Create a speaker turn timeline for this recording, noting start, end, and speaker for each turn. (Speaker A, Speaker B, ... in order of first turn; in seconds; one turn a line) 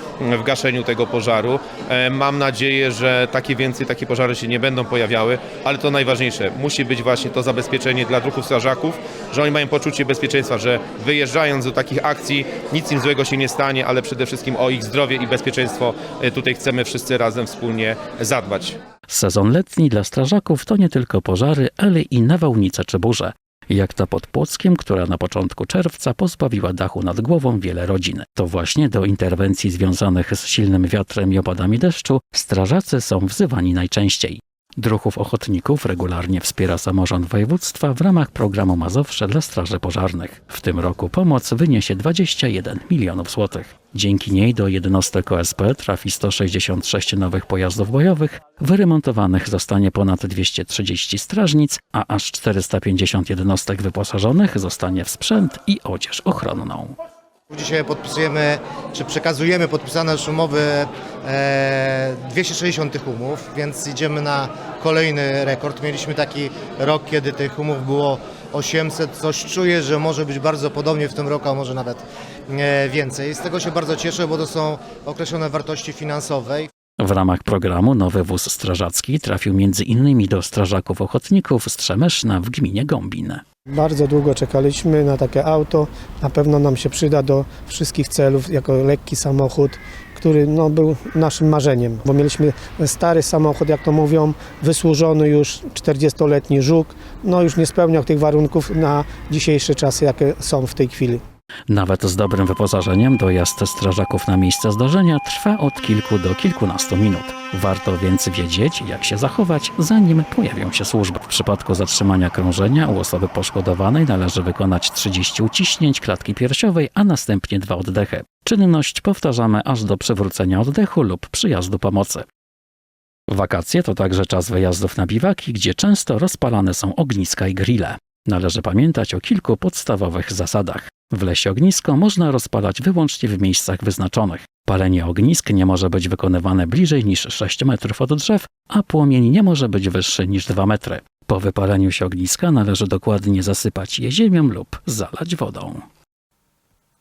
Speaker A: 0.4-18.7
Speaker B: 19.1-56.9
Speaker C: 57.5-76.7
Speaker B: 77.0-83.4
Speaker D: 83.7-101.2
Speaker B: 101.7-122.2
Speaker B: 123.3-145.8